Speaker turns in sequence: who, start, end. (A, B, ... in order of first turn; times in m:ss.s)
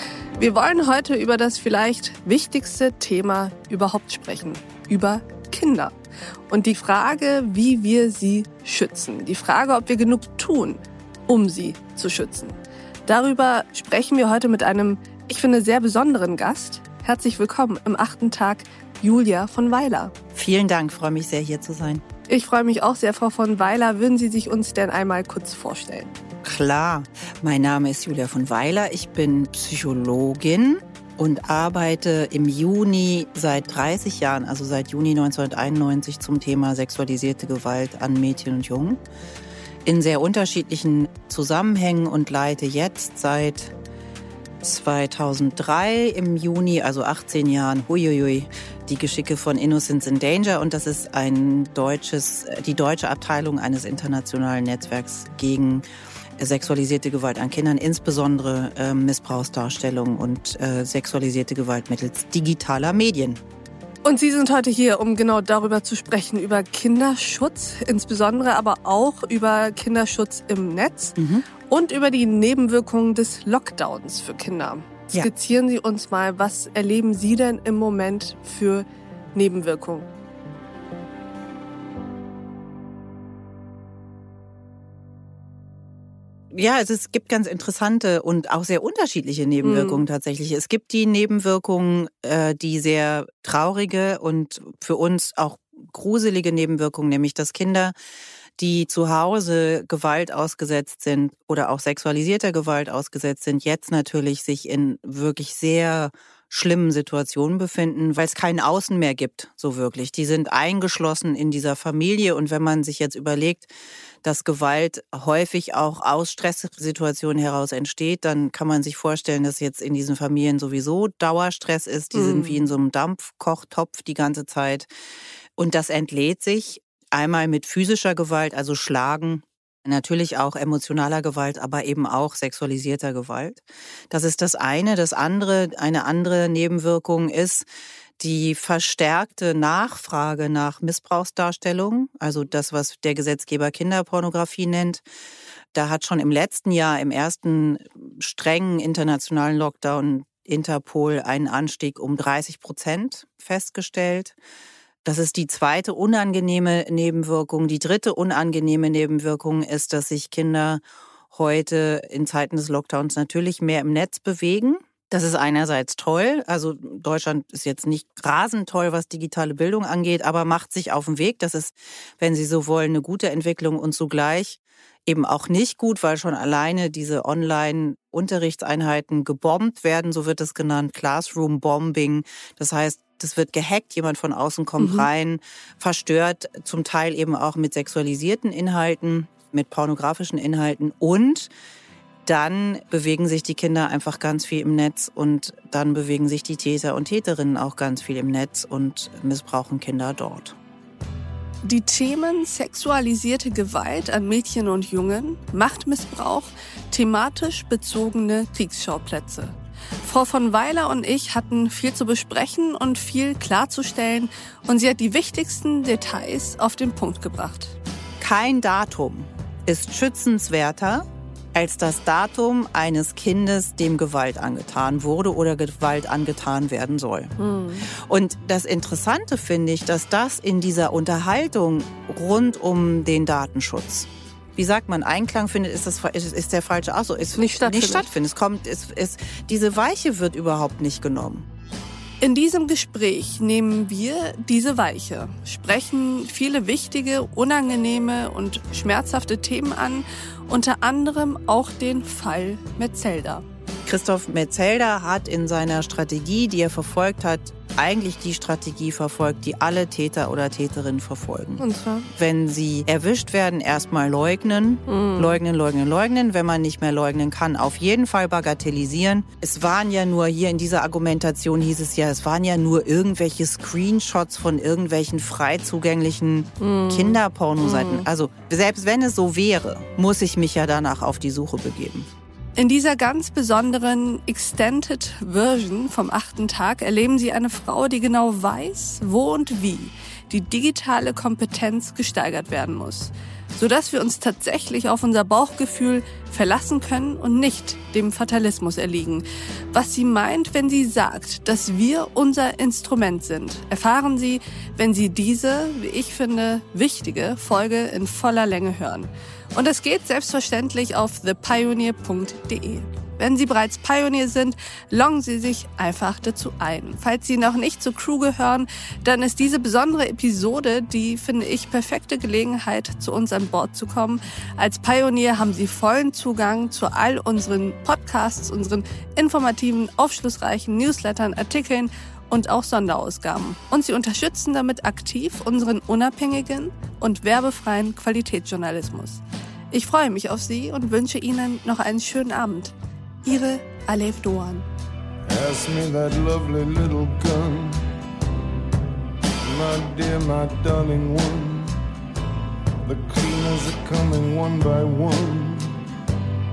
0:00.4-0:06.0 A
0:06.5-0:20.1 A
0:20.3-0:22.0 B
0:22.3-0:26.1 A
0:26.4-0:39.0 B
0:39.9-0:43.7 B
0:44.6-0:55.9 B
0:56.4-1:03.4 B
1:04.0-1:20.1 A
1:11.2-1:11.5 B
1:26.5-1:37.9 B
1:29.6-1:30.0 A
1:38.6-1:53.7 B
1:54.2-2:04.9 B
2:02.1-2:02.6 A
2:05.6-2:17.7 B
2:18.2-2:25.0 B
2:25.7-2:34.4 B
2:35.0-3:11.5 B
3:04.8-3:05.1 A
3:12.3-3:20.6 B
3:21.6-3:37.8 A
3:38.2-3:47.3 B
3:47.4-3:47.9 A
3:47.9-4:01.5 B
3:57.4-3:58.1 A
4:02.2-4:13.4 A
4:13.9-4:21.6 B
4:21.6-4:22.1 A
4:22.2-4:42.1 B
4:24.9-4:25.4 A
4:36.6-4:38.1 A
4:42.6-5:44.7 A
5:45.3-5:47.9 C
5:49.4-5:51.8 C
5:52.8-5:55.8 C